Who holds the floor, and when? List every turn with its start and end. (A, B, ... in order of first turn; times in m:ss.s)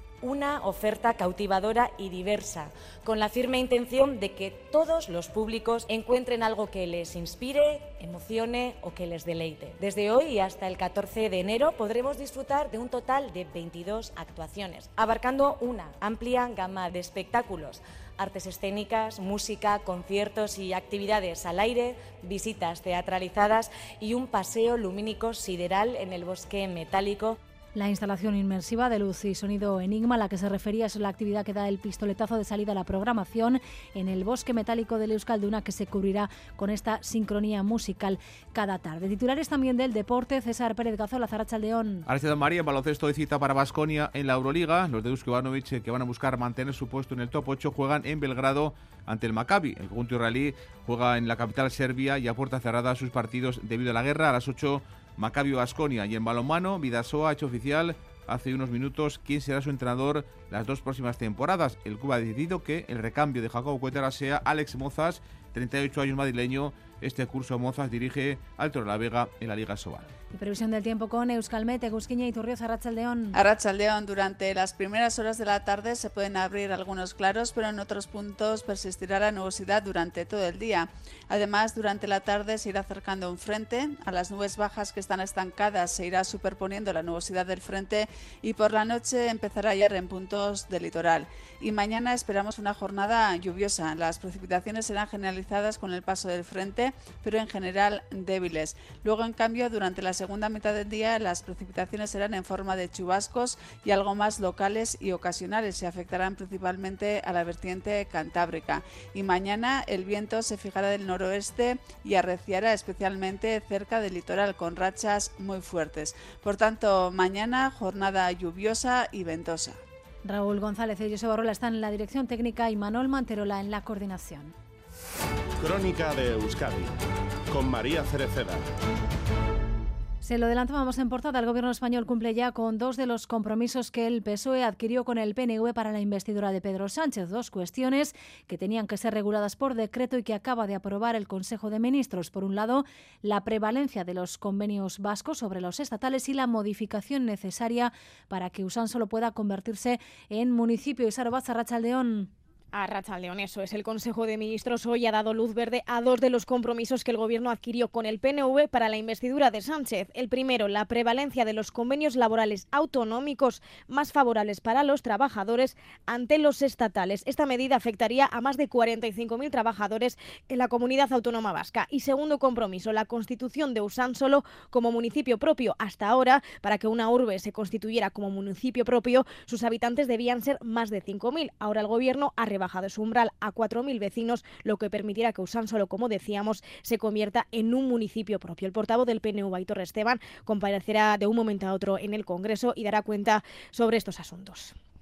0:00.2-0:27.4 A
0:27.8-0:42.1 B
0:42.1-1:10.1 C
1:10.3-1:13.4 B
1:13.3-1:59.8 D
2:00.2-2:04.5 B
2:05.6-2:06.9 E
2:07.5-2:08.6 E
2:10.2-2:32.3 B
2:32.7-3:14.8 F